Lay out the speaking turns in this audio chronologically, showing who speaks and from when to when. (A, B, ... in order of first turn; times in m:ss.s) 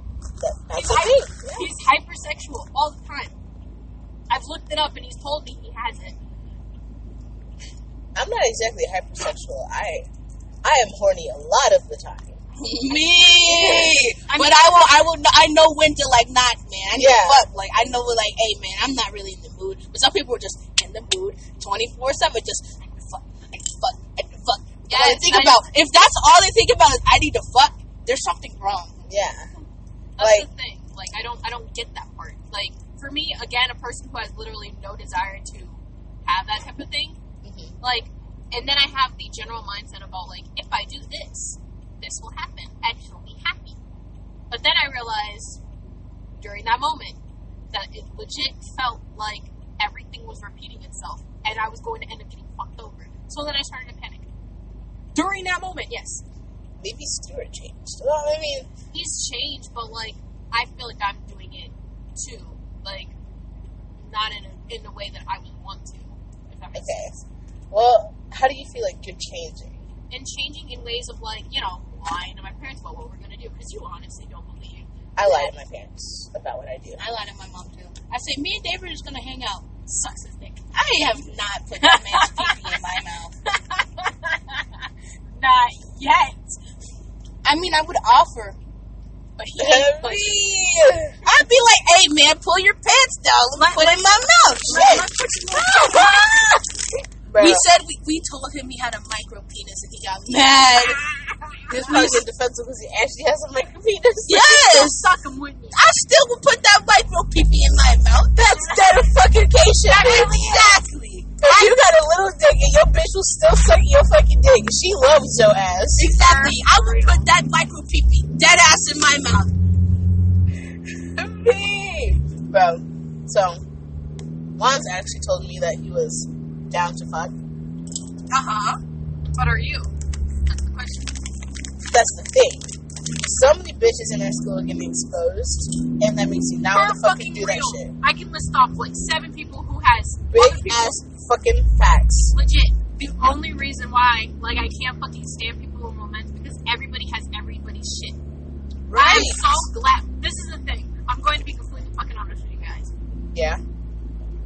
0:00.4-0:01.7 A
0:00.7-0:03.3 B
0:04.3-0:06.2 B
0:08.1-0:10.1 A
0:10.6-0:12.4 A
0:12.6-0:29.0 C
0:13.5-0:13.9 A
0:14.3-0:14.9 B
0:17.0-0:17.4 A
0:24.9-0:25.7 B
0:29.1-0:29.5 A
0:30.2-0:37.2 B
0:30.2-0:30.5 A
0:37.4-0:37.7 A
0:37.8-0:43.8 B
0:44.5-0:45.6 B
0:46.4-0:47.2 B
0:47.7-0:54.3 B
0:55.1-0:56.2 B
0:56.8-0:58.7 A
0:58.9-1:03.1 B
1:04.0-1:07.2 B
1:06.7-1:07.1 A
1:07.7-1:09.8 A
1:10.1-1:15.5 B
1:15.2-1:17.0 A
1:17.0-1:19.7 C
1:19.9-1:20.6 B
1:20.7-1:23.3 C
1:21.8-1:22.8 B
1:23.5-1:24.6 B
1:25.4-1:26.6 B
1:27.4-1:28.6 C
1:29.4-1:30.4 B
1:29.6-1:31.2 A
1:31.2-1:36.6 C
1:33.5-1:36.6 B
1:37.3-1:37.6 A
1:37.4-1:41.0 C
1:41.7-1:42.2 C
1:41.7-1:44.7 A
1:44.2-1:45.1 C
1:44.5-1:45.8 B
1:45.7-1:51.8 C
1:48.4-1:49.0 B
1:48.8-1:50.3 A
1:49.8-1:50.8 B
1:51.4-1:56.1 A
1:56.0-1:59.5 C
1:56.0-1:57.3 B
2:01.1-2:03.6 A
2:04.5-2:07.3 A
2:08.3-2:08.8 C
2:09.3-2:09.9 B
2:10.4-2:11.2 B
2:11.8-2:17.9 A
2:16.7-2:21.0 B
2:20.3-2:22.3 A
2:22.3-2:28.2 B
2:28.9-2:29.4 A
2:28.9-2:32.9 B
2:28.9-2:29.3 C
2:33.3-2:33.6 A